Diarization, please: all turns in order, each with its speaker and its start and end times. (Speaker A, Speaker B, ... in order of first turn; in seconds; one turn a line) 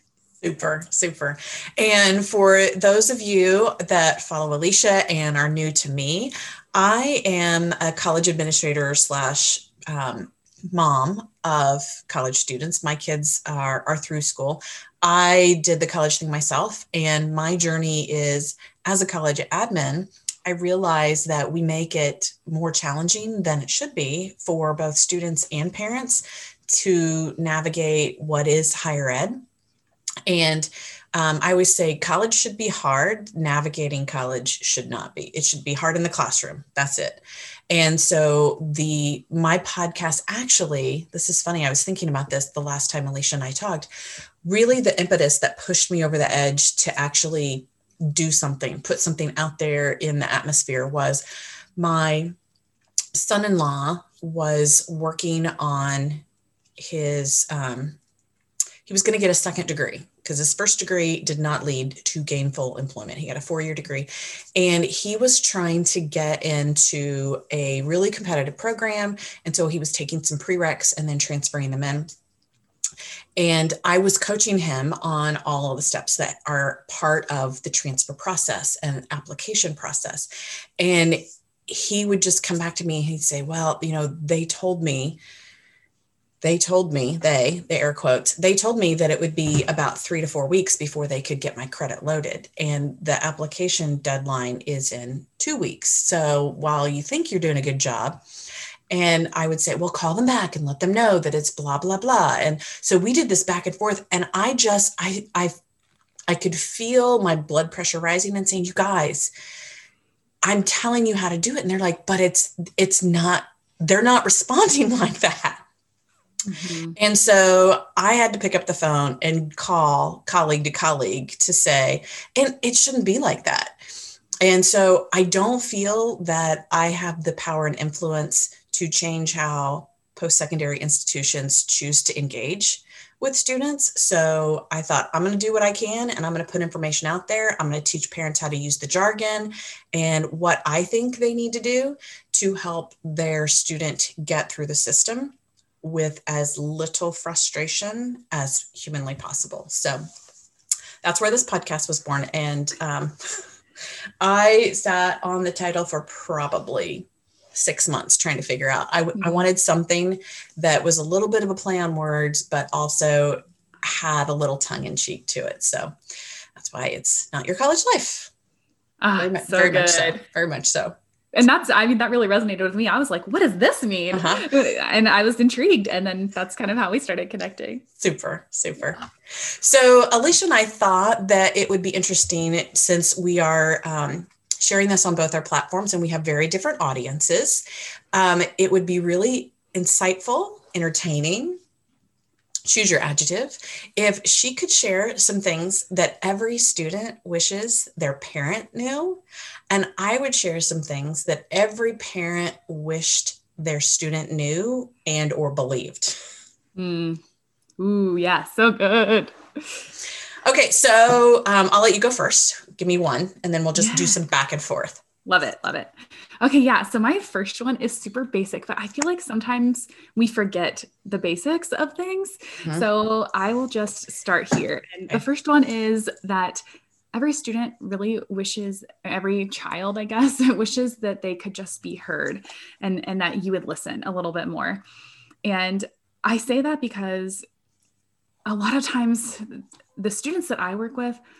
Speaker A: 0.4-29.4
Speaker A: 30.3-43.9
Speaker A: 44.4-51.2
Speaker A: 51.8-52.3
Speaker A: 53.1-56.2
Speaker A: 56.8-58.0
Speaker A: 58.9-72.1
Speaker A: 73.4-80.3
Speaker A: 80.8-85.2
Speaker A: 86.4-98.2
Speaker A: 98.9-105.6
Speaker A: 106.3-109.3
Speaker A: 110.4-115.6
Speaker B: 116.5-117.0
Speaker A: 116.9-123.8
Speaker A: 124.4-150.0
Speaker A: 151.0-153.4
Speaker A: 154.2-165.9
Speaker B: 159.2-159.4
Speaker A: 166.6-168.3
Speaker B: 169.0-170.2
Speaker A: 169.2-170.9
Speaker B: 171.3-177.8
Speaker A: 174.1-174.5
Speaker A: 178.0-191.6
Speaker A: 192.7-206.3
Speaker B: 206.8-207.2
Speaker B: 207.8-209.8
Speaker A: 210.4-215.0
Speaker B: 213.8-214.2
Speaker B: 215.2-226.6
Speaker B: 227.1-234.8
Speaker B: 235.4-237.4
Speaker B: 238.4-241.2